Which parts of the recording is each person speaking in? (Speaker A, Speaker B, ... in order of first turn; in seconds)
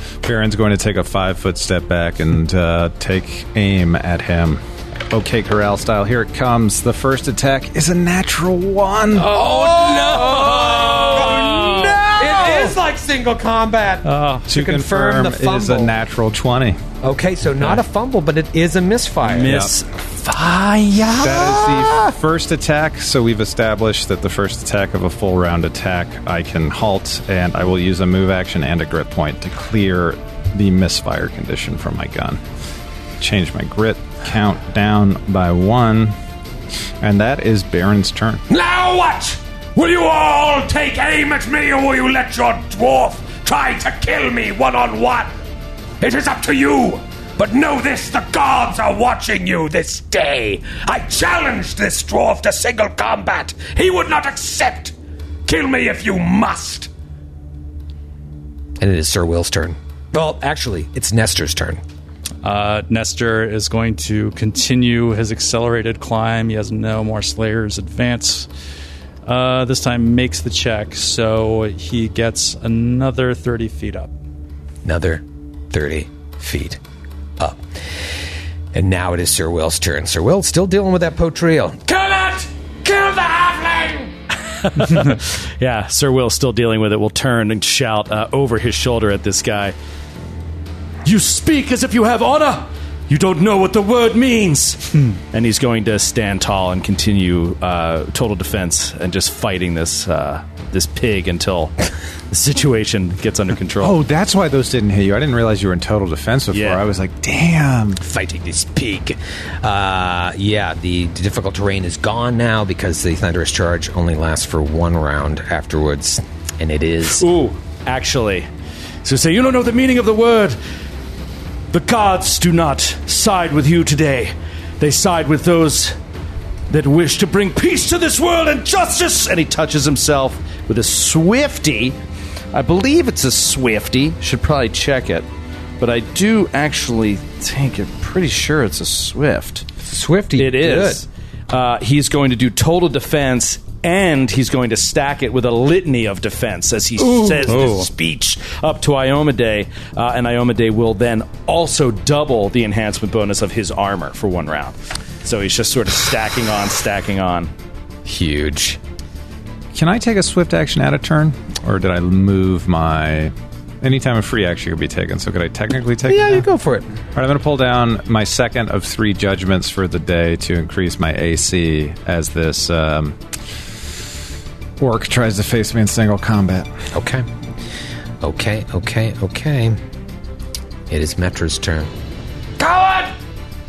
Speaker A: 0.2-9.3, 14.5-16.8, 19.4-19.7, 21.2-32.4, 33.2-36.2, 37.0-38.4, 103.8-108.0, 159.7-166.5, 167.2-173.2, 174.8-176.7
Speaker B: 9.2-11.2, 12.2-15.9, 17.0-19.6, 58.8-61.8, 74.8-76.8, 78.7-81.9, 108.0-117.2, 139.8-141.0, 158.1-158.8, 166.1-166.9, 176.9-177.3, 178.2-179.8, 180.9-181.9
Speaker C: 9.4-12.7, 14.1-14.5, 62.4-68.5, 69.3-74.1, 147.2-147.9
Speaker D: 10.9-12.1, 19.2-22.1, 84.6-89.8, 91.0-101.8, 102.3-104.0, 106.5-106.8, 117.1-118.5, 119.0-120.6, 121.7-126.0, 126.7-132.0, 132.5-135.3, 135.8-139.7, 140.4-157.5
Speaker E: 38.5-45.3, 46.0-54.9, 55.5-56.9, 81.9-84.1, 182.6-183.1